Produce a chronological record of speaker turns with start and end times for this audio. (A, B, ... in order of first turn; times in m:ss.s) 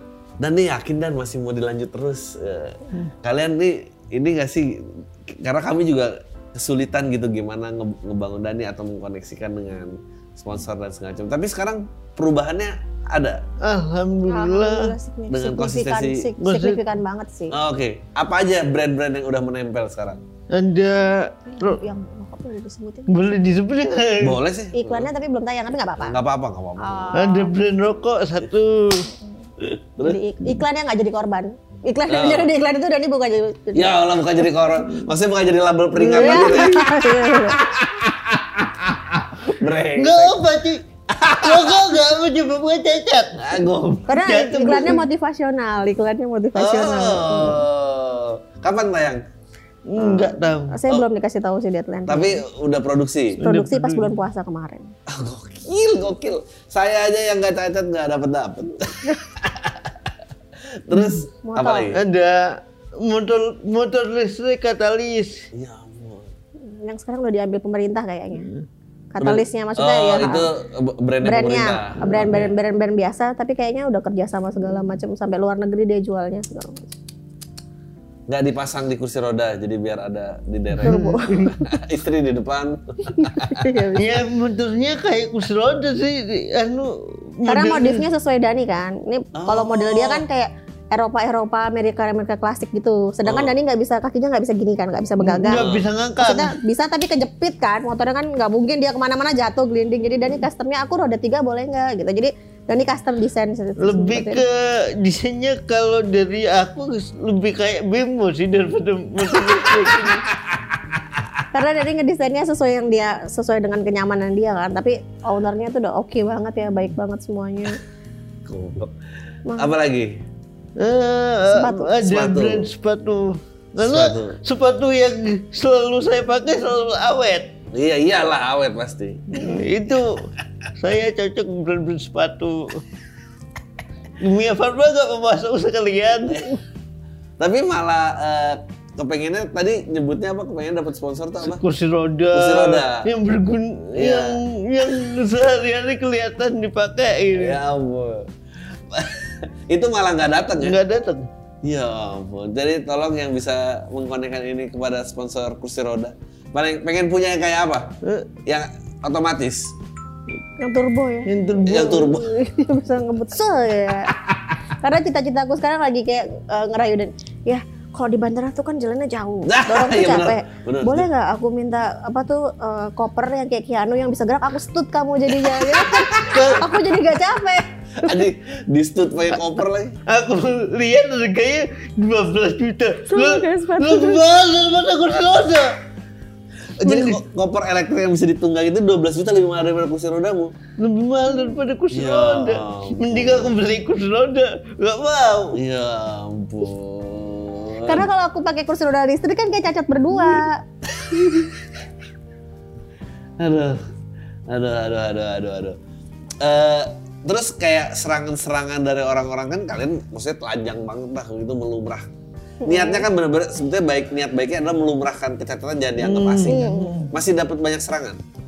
0:00.4-0:13.4 A
0:13.6-0:14.9 B
0:14.3-0:17.6 C
0:15.3-0:16.3 A
0:16.4-0:16.8 B
0:17.5-0:20.2 A
0:20.5-0:21.8 B
0:21.5-0:23.2 C
0:23.1-0:24.4 B
0:24.2-0:25.1 A
0:24.7-0:26.2 C
0:26.0-0:27.2 A
0:26.8-0:27.5 C
0:27.1-0:29.1 B
0:29.6-0:30.2 A
0:30.0-0:34.0 C
0:32.1-0:32.5 A
0:33.7-0:40.4 A
0:36.0-0:36.5 B
0:36.1-0:37.6 C
0:39.9-0:45.0 B
0:41.1-0:41.9 A
0:43.4-0:44.1 A
0:44.1-0:47.6 C
0:46.6-0:49.2 A
0:49.9-0:50.7 B
0:50.0-0:51.0 A
0:50.7-0:52.4 C
0:52.1-0:53.4 A
0:53.4-0:54.9 C
0:53.4-0:54.1 B
0:55.1-0:59.9 A
1:00.8-1:02.0 A
1:01.4-1:01.9 C
1:01.9-1:05.4 B
1:05.5-1:06.3 A
1:06.6-1:08.5 C
1:09.1-1:10.5 C
1:09.2-1:12.5 A
1:11.2-1:16.9 C
1:18.3-1:21.0 A
1:20.8-1:21.6 B
1:20.8-1:21.7 C
1:21.5-1:23.7 A
1:23.1-1:24.2 C
1:24.0-1:28.0 B
1:27.5-1:35.6 C
1:29.3-1:30.2 A
1:33.2-1:33.5 A
1:35.2-1:36.5 B
1:35.5-1:35.9 A
1:36.2-1:44.4 C
1:43.8-1:50.2 B
1:49.9-1:50.2 C
1:51.5-1:57.8 C
1:58.4-1:58.9 A
1:59.5-1:59.7 C
1:59.6-2:00.2 A
2:00.8-2:07.5 B
2:01.5-2:01.9 C
2:02.0-2:02.7 A
2:03.8-2:04.4 A
2:07.7-2:09.4 A
2:09.3-2:12.8 B
2:14.2-2:16.6 B
2:16.3-2:16.6 A
2:17.4-2:21.6 A
2:21.4-2:27.6 B
2:22.3-2:23.1 A
2:24.0-2:24.4 A
2:27.3-2:28.3 A
2:28.9-2:30.8 A
2:30.6-2:31.3 B
2:31.6-2:37.9 A
2:38.0-2:38.4 B
2:38.4-2:39.7 A
2:40.6-2:44.1 C
2:41.2-2:42.2 B
2:41.6-2:42.3 A
2:44.1-2:44.6 A
2:44.8-2:58.3 C
2:49.5-2:51.1 A
2:55.5-2:56.4 A
2:56.3-2:56.7 B
2:58.0-3:00.0 A
3:00.1-3:05.8 B
3:03.1-3:04.2 C
3:06.8-3:10.5 A
3:06.8-3:07.2 B
3:10.8-3:15.6 B
3:11.9-3:13.5 A
3:15.5-3:18.1 A
3:17.8-3:20.6 C
3:20.9-3:21.7 A
3:23.4-3:23.8 A
3:24.5-3:25.8 A
3:26.4-3:32.0 A
3:32.6-3:33.0 C
3:32.6-3:36.6 A
3:36.0-3:37.2 B
3:36.5-3:37.1 C
3:37.1-3:38.2 A